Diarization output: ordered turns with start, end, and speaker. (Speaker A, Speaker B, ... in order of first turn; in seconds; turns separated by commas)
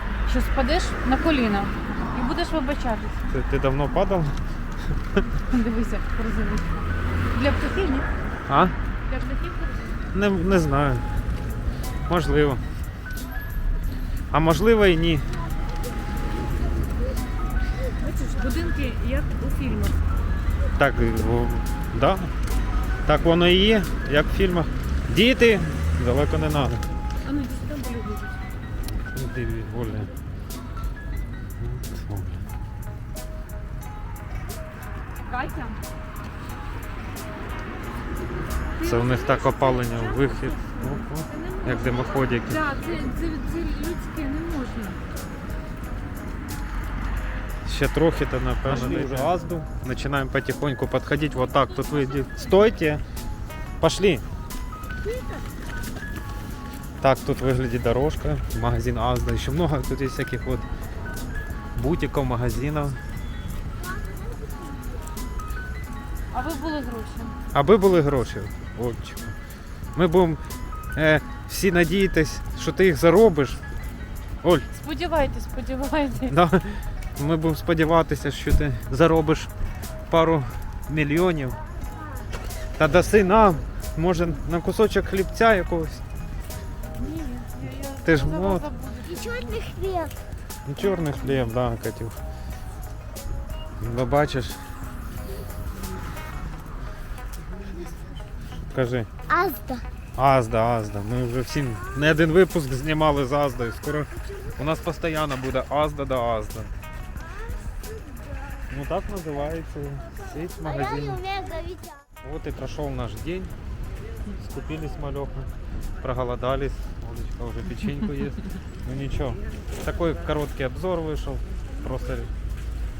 Speaker A: 0.3-3.2, Speaker B: 3.3-5.2, Speaker A: 5.3-8.1, Speaker B: 8.5-8.8, Speaker A: 9.1-10.1, Speaker B: 10.1-11.1, Speaker B: 12.1-12.6, Speaker B: 14.3-15.4, Speaker A: 18.0-20.0, Speaker B: 20.8-22.3, Speaker B: 23.1-26.9, Speaker A: 27.2-28.4, Speaker B: 28.9-30.1, Speaker B: 31.6-32.4, Speaker A: 35.2-35.8, Speaker A: 38.8-45.0, Speaker B: 38.8-42.6, Speaker B: 47.6-53.0, Speaker A: 48.7-49.4, Speaker A: 51.6-52.7, Speaker B: 53.8-54.2, Speaker B: 57.0-60.7, Speaker B: 61.8-63.0, Speaker C: 64.0-65.0, Speaker A: 66.3-67.4, Speaker B: 67.5-69.4, Speaker B: 70.0-70.4, Speaker B: 71.0-73.6, Speaker B: 74.4-74.7, Speaker A: 74.7-76.4, Speaker B: 76.2-79.5, Speaker B: 80.1-81.6, Speaker B: 82.8-86.0, Speaker A: 86.9-89.8, Speaker B: 88.0-88.7, Speaker C: 89.5-90.1, Speaker B: 90.7-92.2, Speaker A: 90.8-91.4, Speaker B: 93.8-94.6, Speaker B: 98.7-99.1, Speaker C: 99.3-99.9, Speaker B: 100.2-106.7, Speaker B: 108.7-111.3, Speaker C: 111.3-111.9, Speaker B: 112.2-113.5, Speaker B: 114.4-122.3